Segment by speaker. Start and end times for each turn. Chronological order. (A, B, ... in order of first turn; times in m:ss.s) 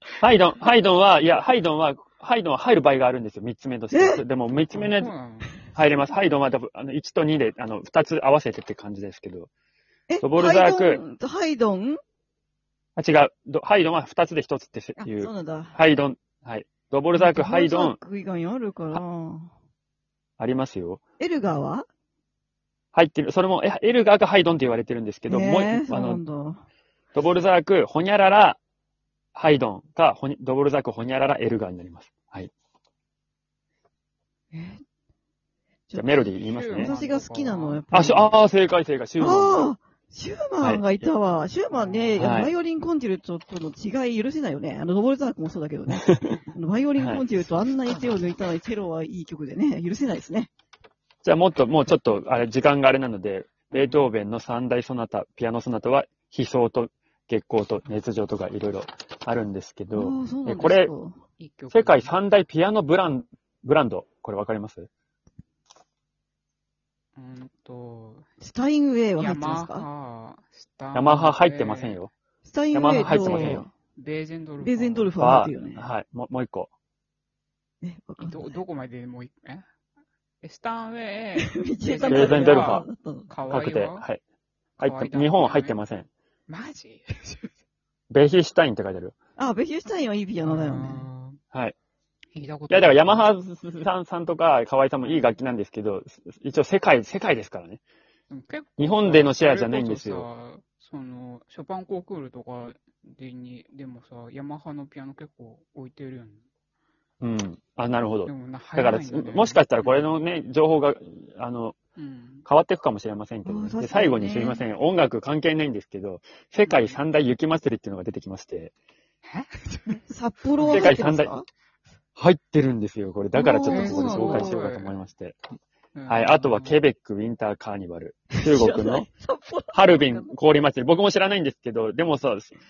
0:00.2-0:05.1 A
0:03.9-0:04.2 B
0:04.7-0:05.6 C
0:05.7-0:09.5 A
0:10.1-0:12.0 B
0:10.2-0:11.0 A
0:13.0-0:18.0 A
0:15.0-0:15.8 B
0:17.1-0:19.5 B
0:20.4-0:21.0 A
0:21.2-0:21.9 B
0:22.9-0:26.2 A
0:25.3-0:26.6 B
0:27.1-0:28.6 A
0:29.4-0:32.5 A
0:34.5-0:34.8 B
0:35.9-0:38.4 B
0:36.0-0:36.9 A
0:36.4-0:37.9 C
0:37.9-0:39.6 A
0:39.2-0:50.5 B
0:40.6-0:40.9 A
0:41.0-0:42.3 C
0:42.2-0:42.5 A
0:46.0-0:46.4 A
0:51.2-1:00.9 A
0:53.7-0:54.1 C
1:00.0-1:01.2 B
1:01.4-1:02.1 C
1:01.7-1:04.9 A
1:07.2-1:08.2 C
1:08.4-1:09.9 B
1:09.2-1:12.1 C
1:10.9-1:12.1 A
1:12.4-1:13.7 B
1:12.7-1:13.6 A
1:12.9-1:15.2 C
1:14.6-1:15.8 B
1:15.2-1:16.7 A
1:17.8-1:18.6 B
1:18.2-1:19.7 C
1:20.4-1:24.1 C
1:21.4-1:23.3 B
1:22.0-1:22.9 A
1:23.5-1:24.2 A
1:24.8-1:25.8 C
1:24.8-1:26.1 A
1:26.5-1:27.5 C
1:28.1-1:29.2 A
1:29.4-1:31.1 B
1:30.4-1:31.4 C
1:32.3-1:33.2 C
1:32.7-1:37.8 A
1:35.0-1:35.4 C
1:38.3-1:46.4 C
1:38.8-1:40.3 A
1:47.2-1:51.8 A
1:48.3-1:50.2 C
1:52.0-1:52.4 C
1:52.4-1:58.7 A
1:53.4-1:54.6 B
1:56.6-1:57.0 C
1:59.3-2:00.0 C
1:59.9-2:01.5 B
2:00.6-2:01.1 C
2:00.7-2:01.3 A
2:02.2-2:05.4 A
2:03.3-2:04.6 B
2:03.7-2:05.0 C
2:06.0-2:06.8 C
2:06.1-2:09.1 A
2:08.3-2:10.3 B
2:09.7-2:12.6 A